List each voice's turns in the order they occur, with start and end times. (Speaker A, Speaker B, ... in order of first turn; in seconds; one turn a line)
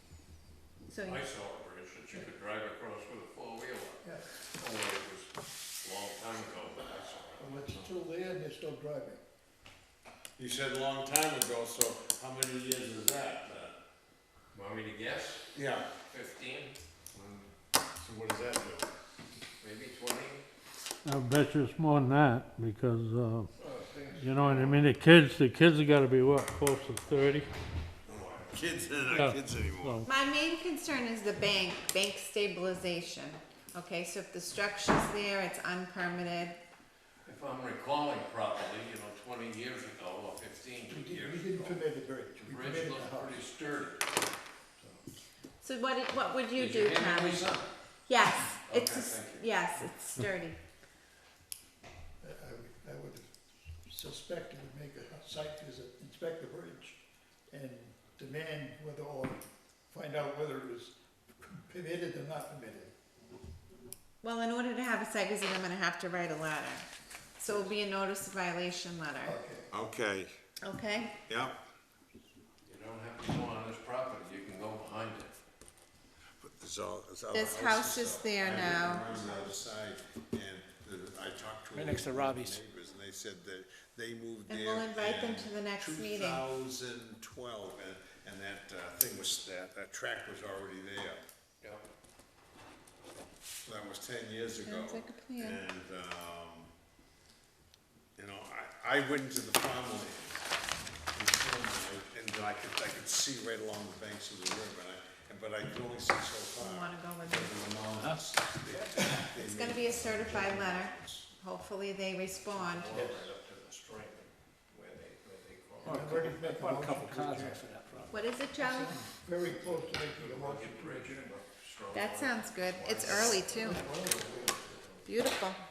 Speaker A: 0.9-1.2
Speaker B: 1.0-7.9
Speaker C: 7.4-9.2
Speaker D: 10.4-13.8
Speaker B: 14.5-15.5
Speaker D: 15.5-15.9
Speaker B: 16.1-16.7
Speaker D: 17.1-17.4
Speaker D: 17.9-18.9
Speaker B: 19.6-20.4
Speaker E: 21.0-23.5
Speaker B: 23.6-24.8
Speaker E: 24.1-27.5
Speaker B: 28.1-28.6
Speaker D: 28.5-30.0
Speaker E: 29.1-30.1
Speaker A: 30.0-36.6
Speaker B: 37.2-41.8
Speaker C: 40.9-43.4
Speaker B: 42.4-44.2
Speaker A: 45.6-47.5
Speaker B: 46.5-47.7
Speaker A: 48.1-50.6
Speaker B: 48.6-49.4
Speaker C: 52.2-53.3
Speaker C: 53.9-57.0
Speaker C: 57.5-62.9
Speaker A: 64.2-66.9
Speaker A: 67.4-69.3
Speaker C: 67.5-67.7
Speaker C: 69.2-69.7
Speaker D: 69.7-70.3
Speaker A: 70.6-71.2
Speaker D: 71.3-71.6
Speaker B: 72.7-75.3
Speaker D: 76.4-91.2
Speaker A: 77.3-79.6
Speaker F: 81.7-82.6
Speaker A: 84.5-86.4
Speaker D: 93.6-96.7
Speaker A: 94.6-95.6
Speaker D: 98.2-100.4
Speaker D: 101.1-111.3
Speaker A: 106.6-107.5
Speaker F: 109.0-109.2
Speaker A: 109.3-112.9
Speaker B: 112.5-116.2
Speaker C: 112.9-113.3
Speaker F: 115.8-118.2
Speaker C: 115.8-117.6
Speaker A: 118.1-119.0
Speaker C: 118.5-121.3
Speaker B: 119.4-125.1
Speaker A: 121.9-123.9
Speaker C: 123.5-124.7
Speaker A: 125.0-125.6